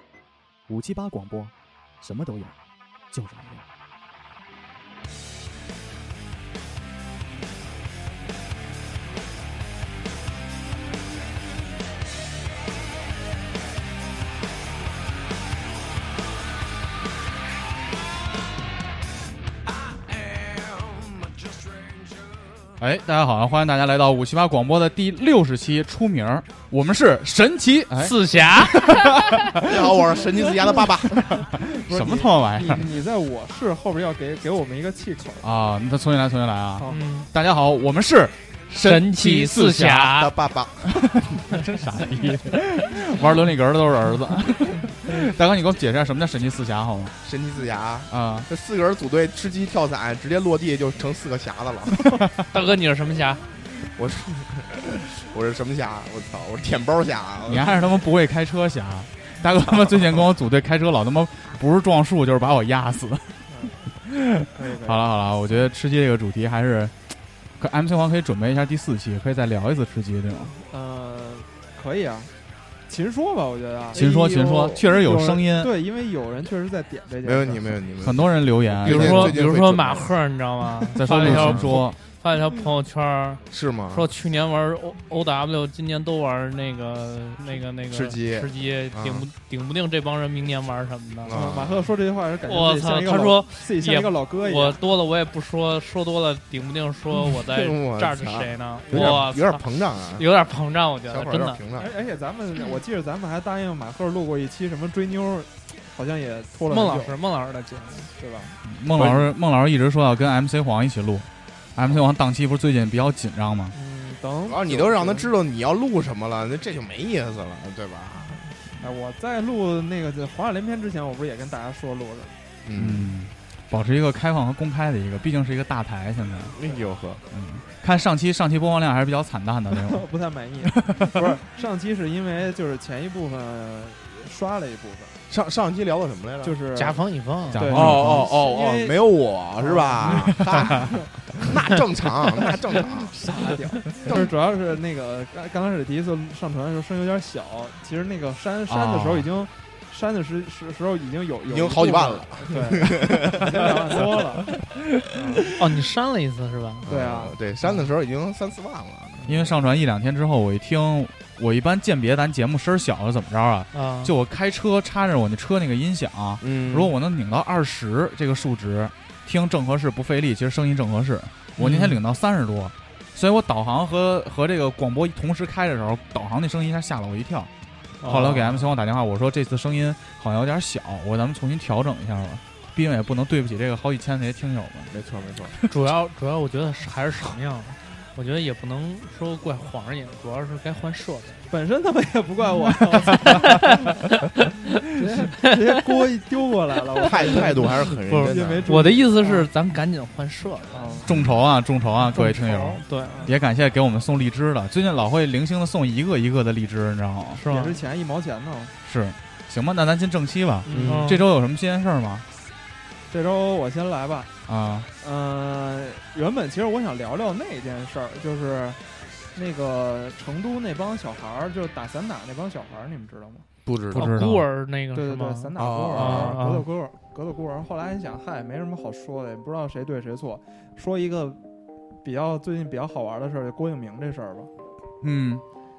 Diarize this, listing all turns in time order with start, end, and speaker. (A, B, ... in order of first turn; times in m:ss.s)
0:00.7-0:02.5 A
0:03.1-0:03.6 A
0:22.8-0:30.0 A
0:28.0-0:28.9 B
0:29.6-0:31.3 C
0:31.3-0:32.9 A
0:31.6-0:35.5 D
0:35.4-0:40.2 A
0:36.8-0:37.0 D
0:36.9-0:37.3 B
0:38.8-0:40.3 B
0:40.2-0:41.1 C
0:40.9-0:47.2 A
0:47.2-0:52.2 C
0:48.1-0:48.5 A
0:52.5-0:53.4 B
0:53.8-0:57.8 C
0:57.5-1:03.4 A
1:03.5-1:03.8 D
1:04.0-1:07.0 A
1:04.5-1:05.1 D
1:07.6-1:10.5 A
1:10.4-1:12.3 D
1:12.9-1:17.8 D
1:13.9-1:14.8 C
1:13.9-1:15.7 A
1:17.2-1:20.2 C
1:18.0-1:19.4 A
1:18.9-1:31.4 B
1:21.0-1:22.0 A
1:21.1-1:21.8 C
1:23.5-1:24.1 C
1:27.9-1:29.3 C
1:31.2-1:31.9 C
1:31.3-1:34.8 D
1:32.4-1:41.6 B
1:37.2-1:40.3 C
1:38.9-1:39.2 A
1:41.1-1:41.9 C
1:41.8-1:47.2 D
1:46.7-1:48.1 B
1:48.1-1:49.3 D
1:48.7-1:53.8 A
1:53.8-1:55.3 D
1:54.4-1:58.4 C
1:58.3-2:02.3 D
2:02.6-2:03.2 C
2:02.8-2:06.6 A
2:06.5-2:07.2 C
2:07.3-2:10.1 A
2:09.7-2:15.2 D
2:10.6-2:11.3 A
2:15.3-2:16.6 C
2:16.4-2:17.0 D
2:16.7-2:17.6 B
2:17.5-2:18.3 A
2:17.6-2:19.0 D
2:17.7-2:23.2 C
2:19.6-2:21.4 D
2:20.2-2:20.7 A
2:22.5-2:35.5 D
2:24.0-2:24.3 C
2:28.7-2:29.3 A
2:31.5-2:34.2 C
2:35.5-2:36.9 B
2:36.8-2:39.5 C
2:36.9-2:37.8 D
2:39.2-2:39.5 D
2:39.3-2:57.5 A
2:43.7-2:44.1 B
2:46.4-2:46.9 C
2:51.6-2:52.0 B
2:58.0-2:58.7 B
2:58.0-3:04.9 A
3:04.9-3:05.6 C
3:05.7-3:11.5 B
3:11.5-3:14.0 D
3:14.9-3:19.5 D
3:17.0-3:18.7 C
3:18.1-3:21.0 B
3:20.7-3:21.1 D
3:21.0-3:27.4 A
3:22.1-3:23.3 B
3:23.0-3:23.4 D
3:27.3-3:27.8 B
3:27.4-3:28.7 D
3:28.8-3:32.2 A
3:30.6-3:31.1 D
3:30.7-3:31.0 C
3:30.9-3:31.2 B
3:33.1-3:34.3 D
3:34.5-3:34.9 A
3:35.0-3:43.5 D
3:43.6-3:44.2 C
3:43.9-3:44.5 A
3:43.9-3:46.7 B
3:44.9-3:51.4 D
3:45.6-3:46.4 C
3:52.0-3:54.5 D
3:55.0-3:55.4 A